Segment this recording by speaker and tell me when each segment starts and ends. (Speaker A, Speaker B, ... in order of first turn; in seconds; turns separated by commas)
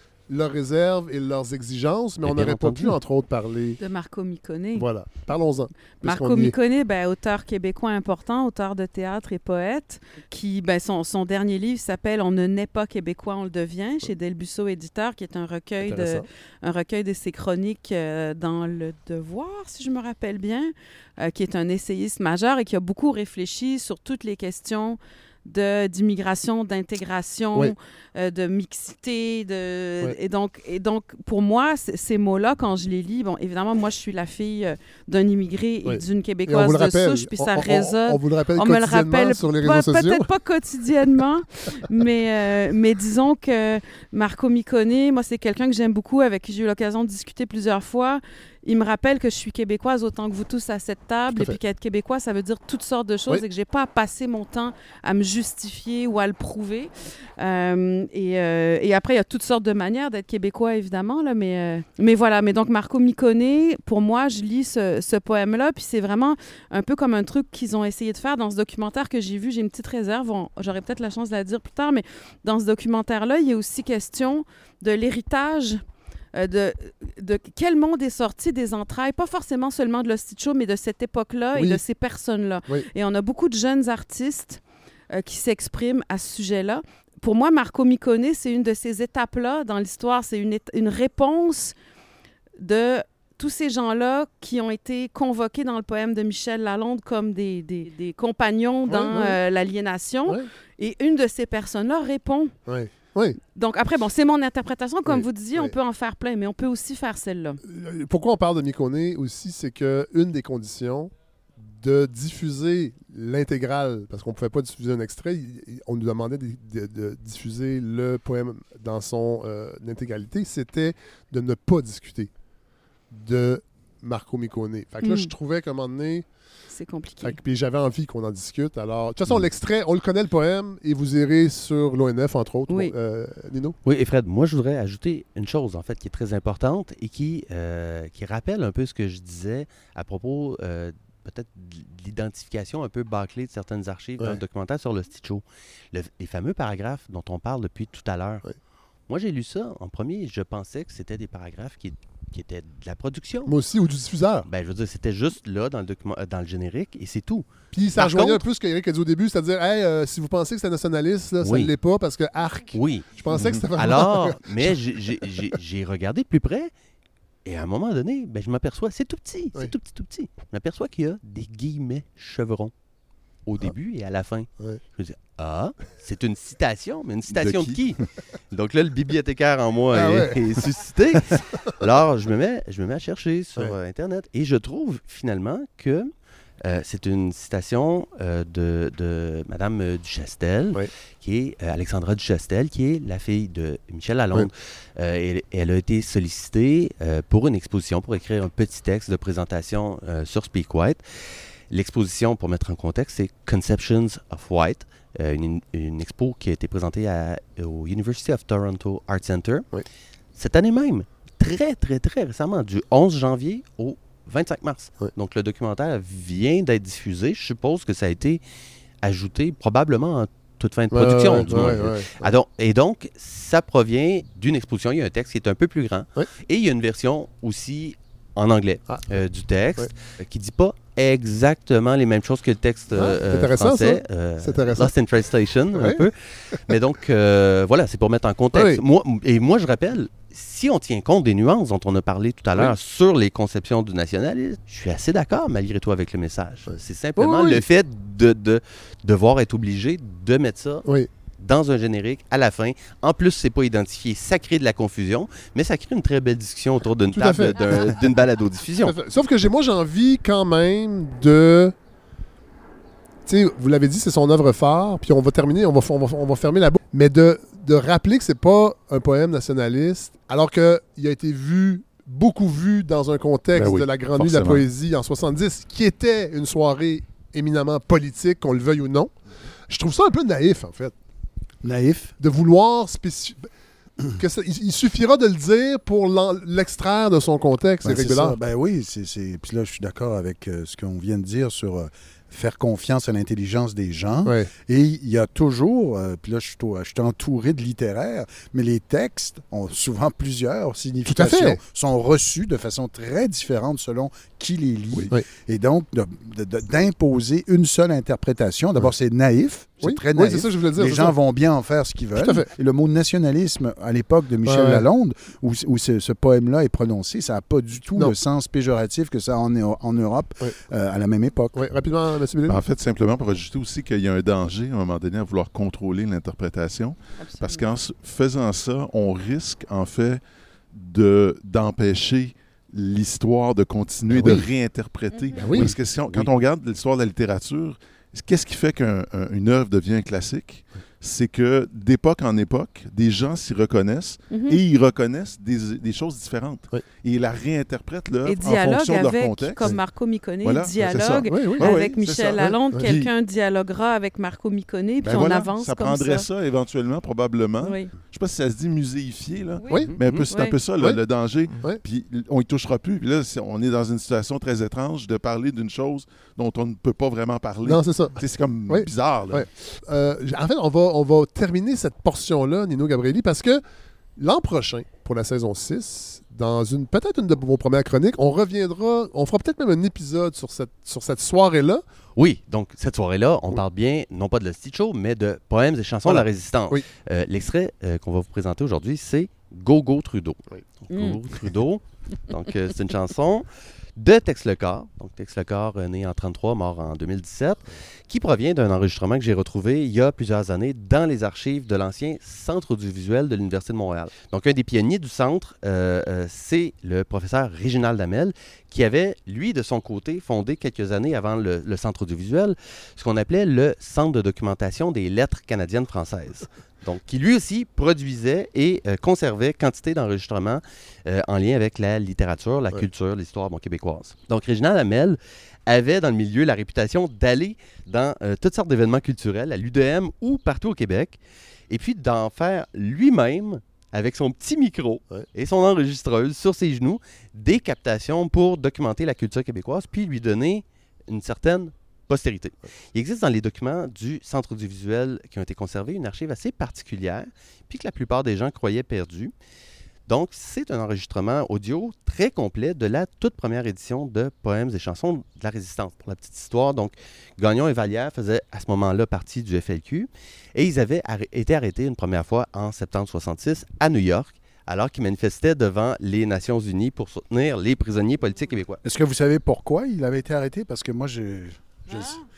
Speaker A: 0.3-3.8, Speaker B: 2.2-3.0, Speaker C: 3.8-4.9, Speaker A: 4.8-6.5, Speaker C: 5.9-75.8, Speaker A: 15.8-16.2, Speaker A: 35.9-40.2, Speaker C: 76.3-84.6, Speaker A: 81.5-81.8, Speaker C: 85.1-91.7, Speaker C: 92.6-102.5, Speaker A: 98.9-99.4, Speaker A: 102.7-103.4, Speaker C: 103.5-107.6, Speaker A: 105.1-105.7, Speaker A: 107.6-122.3, Speaker A: 123.1-126.2, Speaker C: 125.0-125.3, Speaker C: 126.7-127.4, Speaker A: 127.2-133.8, Speaker C: 132.7-132.9, Speaker B: 133.8-148.4, Speaker B: 149.1-153.5, Speaker A: 153.4-154.5, Speaker B: 154.4-158.4, Speaker A: 157.7-165.2, Speaker B: 161.4-161.7, Speaker B: 162.7-163.1, Speaker D: 163.3-163.7, Speaker B: 163.7-166.7, Speaker B: 167.4-172.7, Speaker B: 173.4-178.0, Speaker D: 177.3-177.8, Speaker B: 178.5-186.1, Speaker A: 179.9-180.4, Speaker B: 186.6-201.0, Speaker B: 201.7-209.7, Speaker B: 210.3-218.4, Speaker B: 219.0-250.8, Speaker A: 220.9-222.3, Speaker A: 228.9-229.2, Speaker A: 232.9-234.9, Speaker A: 235.8-236.0, Speaker A: 238.5-238.8, Speaker A: 246.7-247.6, Speaker B: 251.4-258.9, Speaker A: 257.1-257.6, Speaker A: 258.8-261.7, Speaker A: 263.3-279.1, Speaker D: 273.5-274.7, Speaker A: 279.7-280.9, Speaker E: 281.6-282.1, Speaker A: 282.2-283.5, Speaker A: 284.1-288.3, Speaker E: 287.8-321.7, Speaker A: 301.1-301.6, Speaker A: 309.8-311.1, Speaker A: 312.2-312.5, Speaker A: 314.4-314.8, Speaker A: 321.5-322.6, Speaker D: 322.4-330.2, Speaker C: 327.2-327.7, Speaker D: 330.7-349.7, Speaker A: 334.1-334.4, Speaker C: 335.1-335.5, Speaker A: 335.4-335.7, Speaker C: 344.3-344.6, Speaker C: 348.2-356.3, Speaker D: 350.4-353.1, Speaker A: 351.3-351.8, Speaker D: 355.0-369.5, Speaker C: 357.6-357.9, Speaker C: 359.6-360.6, Speaker A: 367.6-368.2, Speaker A: 368.7-373.6, Speaker A: 374.2-381.8, Speaker B: 382.1-431.2, Speaker A: 386.1-386.8, Speaker C: 390.9-391.2, Speaker B: 431.7-449.3, Speaker B: 450.1-468.8, Speaker E: 468.8-472.2